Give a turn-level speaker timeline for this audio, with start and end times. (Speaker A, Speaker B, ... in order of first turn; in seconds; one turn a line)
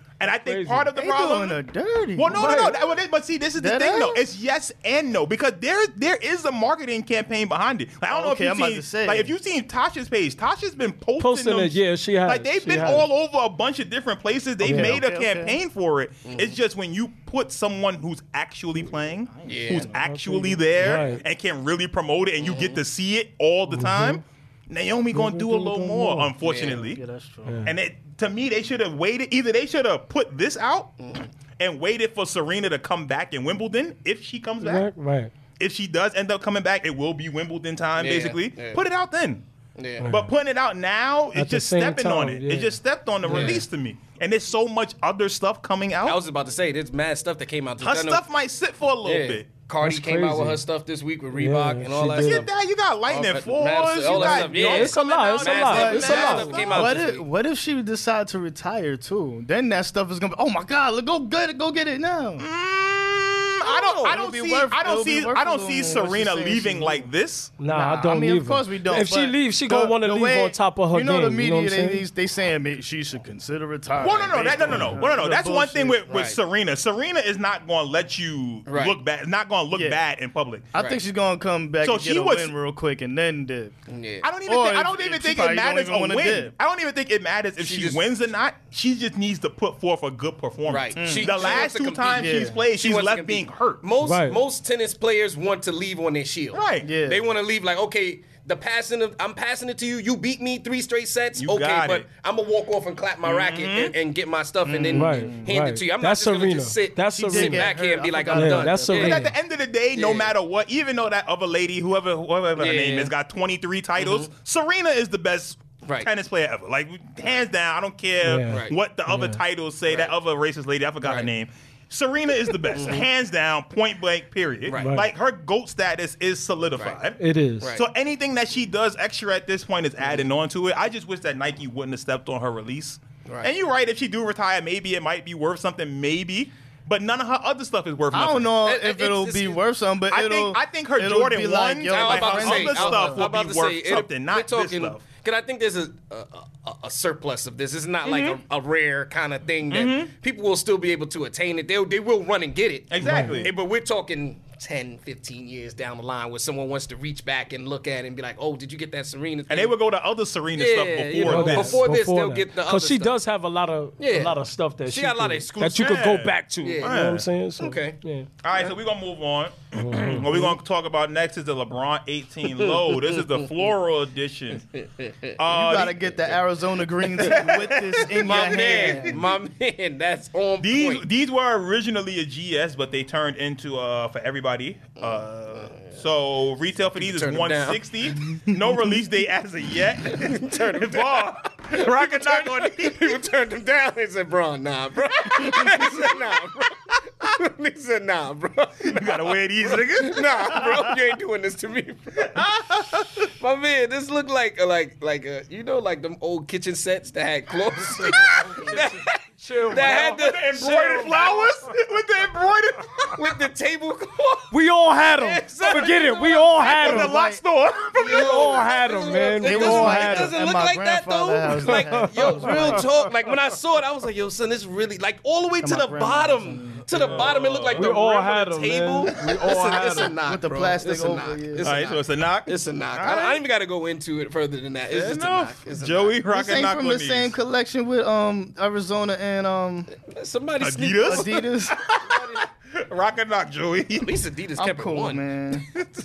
Speaker A: 0.2-1.6
Speaker B: 0.2-0.9
Speaker C: 0.9-2.8
Speaker A: 2.1-27.0
Speaker B: 2.3-2.7
Speaker C: 3.5-4.2
Speaker C: 8.1-9.3
Speaker B: 11.2-13.1
Speaker B: 14.6-15.0
Speaker C: 14.6-15.6
Speaker D: 16.2-16.6
Speaker C: 19.3-19.9
Speaker D: 19.4-19.9
Speaker B: 19.9-21.2
Speaker D: 22.4-22.8
Speaker B: 23.7-24.2
Speaker B: 25.1-26.3
Speaker D: 26.4-26.8
Speaker C: 26.6-27.7
Speaker B: 27.4-27.7
Speaker A: 27.6-31.0
Speaker D: 31.0-31.3
Speaker A: 31.6-34.9
Speaker B: 34.6-35.3
Speaker A: 35.6-39.4
Speaker D: 38.0-38.8
Speaker D: 39.8-40.1
Speaker B: 40.0-40.3
Speaker A: 40.0-46.2
Speaker B: 41.3-43.6
Speaker D: 43.2-43.6
Speaker D: 46.0-48.2
Speaker A: 47.8-49.4
Speaker D: 49.0-52.5
Speaker B: 49.8-50.6
Speaker B: 51.3-52.5
Speaker A: 52.2-57.0
Speaker D: 53.1-57.2
Speaker B: 54.1-56.6
Speaker C: 55.7-62.4
Speaker A: 62.4-67.5
Speaker D: 63.6-64.2
Speaker C: 64.0-67.1
Speaker B: 67.6-72.0
Speaker C: 67.7-76.0
Speaker A: 74.0-80.7
Speaker D: 74.3-74.9
Speaker D: 76.1-76.4
Speaker D: 78.7-79.0
Speaker C: 79.7-80.0
Speaker C: 80.7-83.7
Speaker A: 81.8-82.5
Speaker D: 83.9-84.3
Speaker A: 84.2-93.8
Speaker C: 84.4-86.5
Speaker D: 87.6-88.0
Speaker D: 90.7-109.2
Speaker C: 91.0-92.6
Speaker B: 94.0-94.4
Speaker A: 96.5-96.9
Speaker C: 96.8-97.2
Speaker A: 101.4-102.0
Speaker A: 103.2-103.9
Speaker C: 104.7-105.5
Speaker B: 104.9-107.7
Speaker C: 107.1-109.2
Speaker B: 108.3-109.3
Speaker A: 108.9-127.2
Speaker D: 109.9-110.3
Speaker D: 112.5-113.1
Speaker D: 114.0-114.3
Speaker D: 115.8-116.1
Speaker B: 118.2-119.4
Speaker D: 118.5-118.7
Speaker D: 119.9-120.1
Speaker D: 121.0-121.3
Speaker D: 122.7-123.0
Speaker D: 124.7-125.0
Speaker B: 124.7-125.1
Speaker B: 127.2-127.7
Speaker A: 127.7-138.5
Speaker D: 130.0-130.3
Speaker C: 138.1-143.2
Speaker D: 138.6-139.6
Speaker A: 140.1-145.0
Speaker D: 141.9-159.8
Speaker A: 148.0-148.4
Speaker A: 149.7-150.1
Speaker A: 152.9-153.5
Speaker B: 153.0-153.4
Speaker A: 159.5-161.8
Speaker D: 160.5-163.1
Speaker B: 161.2-168.3
Speaker D: 164.0-166.0
Speaker A: 165.7-167.3
Speaker D: 166.6-167.0
Speaker D: 167.6-168.0
Speaker A: 168.4-174.6
Speaker B: 169.7-170.5
Speaker D: 172.4-173.7
Speaker D: 174.7-175.4
Speaker A: 175.4-176.3
Speaker C: 175.5-179.2
Speaker A: 177.1-179.2
Speaker D: 178.1-181.0
Speaker A: 180.6-193.2
Speaker D: 185.0-185.9
Speaker D: 186.9-187.8
Speaker D: 190.0-202.5
Speaker A: 195.4-196.1
Speaker A: 198.8-200.9
Speaker A: 202.2-203.3
Speaker D: 203.1-211.4
Speaker A: 207.9-208.8
Speaker B: 208.1-211.1
Speaker A: 209.6-213.3
Speaker D: 213.1-216.4
Speaker B: 214.5-217.1
Speaker A: 216.6-218.6
Speaker C: 216.7-217.4
Speaker D: 217.9-236.2
Speaker B: 218.0-220.3
Speaker C: 219.4-222.9
Speaker B: 221.7-222.8
Speaker C: 225.6-226.9
Speaker A: 226.9-227.9
Speaker B: 227.0-230.1
Speaker C: 229.7-231.7
Speaker A: 231.6-233.4
Speaker A: 234.9-237.3
Speaker C: 236.3-239.9
Speaker D: 239.9-241.5
Speaker A: 240.6-244.2
Speaker C: 241.0-241.8
Speaker D: 242.0-242.5
Speaker D: 244.0-245.2
Speaker C: 244.6-245.7